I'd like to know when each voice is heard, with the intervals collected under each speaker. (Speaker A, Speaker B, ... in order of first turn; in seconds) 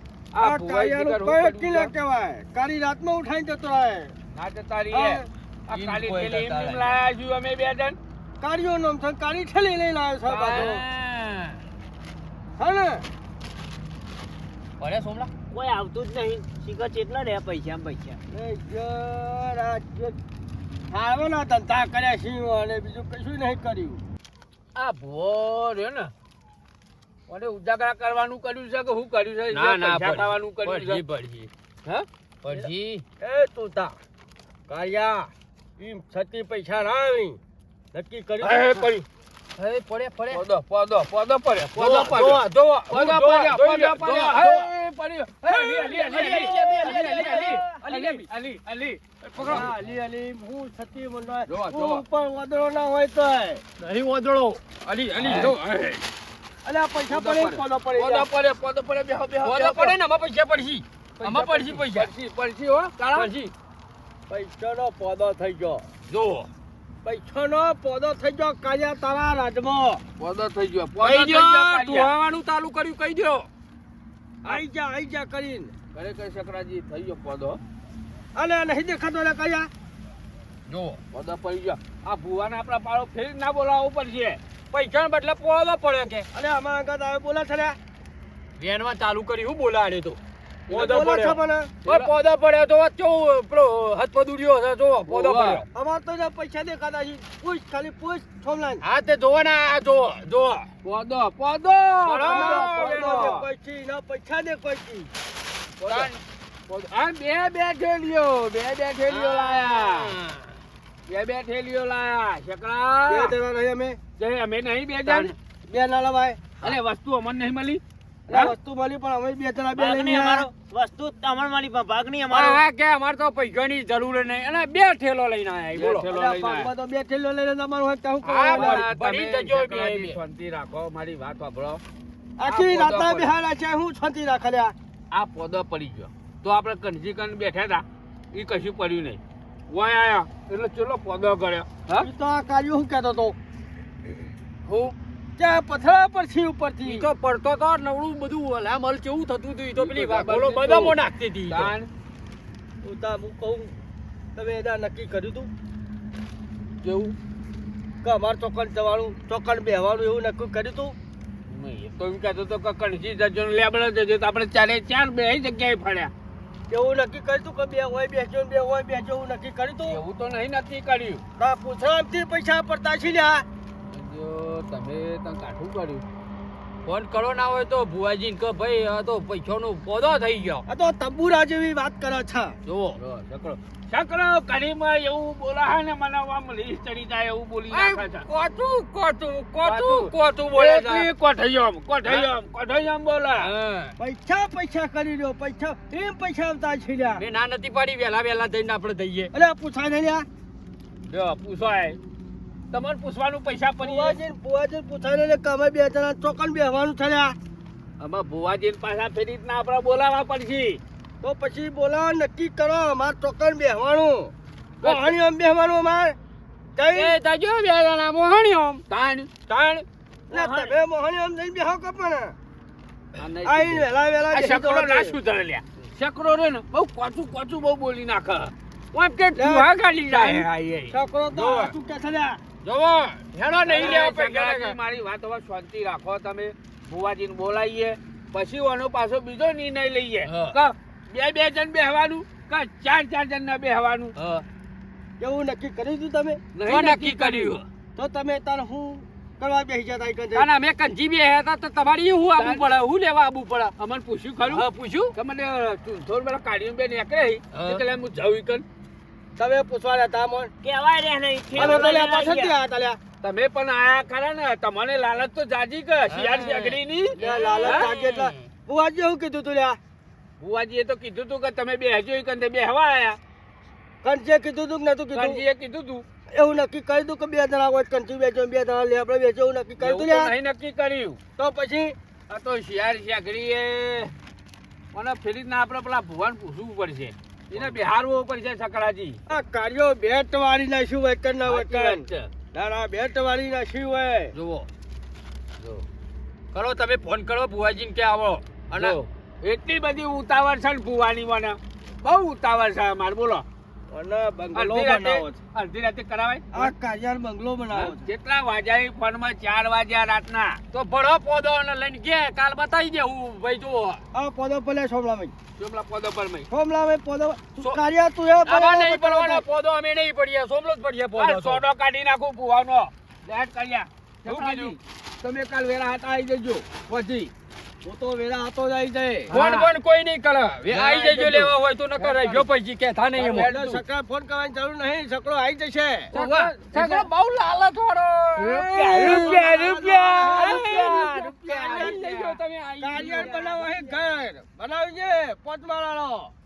Speaker A: 0.3-1.9, 4.3-8.0, 10.3-10.9, 24.8-26.1, 27.3-31.0, 31.9-33.0, 38.4-39.0, 40.3-49.7, 51.5-52.0, 55.2-55.6, 57.1-60.0, 61.2-63.3, 66.1-66.5, 70.2-72.1, 75.9-77.6, 81.1-84.4, 91.8-92.1, 95.1-95.7, 100.8-103.5, 105.8-110.2, 111.1-113.3, 114.2-115.3, 116.6-118.5, 125.7-126.7, 128.5-131.8, 132.5-133.3, 135.1-142.1, 144.7-144.9, 149.8-151.9, 156.8-157.2, 161.5-166.1, 169.9-171.2, 173.9-176.1, 183.0-188.3, 189.6-193.5, 201.1-202.0, 202.7-204.2, 208.0-210.8, 214.8-215.2, 216.9-217.6, 218.9-219.8, 220.4-220.7, 223.2-230.9, 232.7-244.2, 246.6-247.6, 252.4-258.6, 261.6-262.0, 263.2-267.9, 270.4-273.2, 275.1-276.1, 279.8-281.2, 282.3-284.1, 284.9-289.2, 291.4-292.3, 295.6-295.9, 298.7-303.4, 304.6-306.7, 307.7-310.6, 315.6-316.5, 321.2-327.3, 329.3-329.8, 330.6-332.5, 333.2-333.7, 336.1-337.1, 338.4-344.0
Speaker B: 0.4-4.1, 4.9-5.3, 8.4-10.8, 12.6-13.1, 18.3-20.2, 20.9-24.0, 33.2-34.0, 34.7-37.4, 37.9-38.8, 45.9-47.8, 49.4-53.6, 56.6-58.3, 64.3-65.9, 67.0-70.0, 74.4-75.7, 78.3-79.7, 86.3-87.8, 90.7-91.7, 95.7-98.8, 102.2-105.1, 113.1-114.0, 115.7-116.4, 118.3-120.5, 126.1-128.9, 132.4-134.8, 142.0-143.4, 145.4-147.1, 152.8-153.7, 154.3-155.5, 158.0-161.0, 166.7-170.0, 171.4-173.4, 180.7-182.6, 194.0-197.2, 199.3-200.3, 203.8-207.4, 211.2-216.2, 216.8-217.2, 220.3-222.3, 223.4-225.2, 229.3-232.4, 245.2-246.4, 248.0-250.5, 259.4-260.5, 261.6-263.0, 267.2-269.8, 274.0-275.4, 276.3-280.3, 281.4-281.9, 289.3-294.3, 303.9-305.4, 306.5-308.0, 314.1-315.3, 316.5-319.4, 327.8-329.3, 333.2-336.1, 338.9-342.1, 342.8-346.3
Speaker C: 5.7-7.0, 10.4-11.6, 14.8-15.3, 29.5-31.5, 32.5-32.8, 39.6-40.4, 41.7-44.8, 45.4-48.3, 49.3-49.7, 53.8-56.0, 59.4-62.1, 63.1-63.5, 71.0-73.5, 80.7-81.0, 84.7-86.3, 88.6-95.7, 98.8-100.7, 102.0-103.4, 105.9-106.2, 109.1-110.5, 115.0-115.3, 122.3-126.1, 128.2-130.2, 146.8-151.7, 176.8-180.6, 182.7-183.0, 187.7-191.1, 192.1-192.3, 193.4-194.0, 197.2-199.3, 217.7-218.8, 231.3-231.7, 233.2-234.8, 240.2-240.6, 246.7-247.6, 250.3-252.8, 254.4-255.2, 257.5-257.8, 266.1-266.8, 267.5-268.0, 294.4-294.7, 296.5-299.0, 310.7-314.0, 318.5-321.6, 324.3-324.8, 329.3-333.8, 336.1-339.6, 340.3-343.7
Speaker D: 15.5-18.2, 119.8-122.6, 260.6-262.6, 267.2-268.0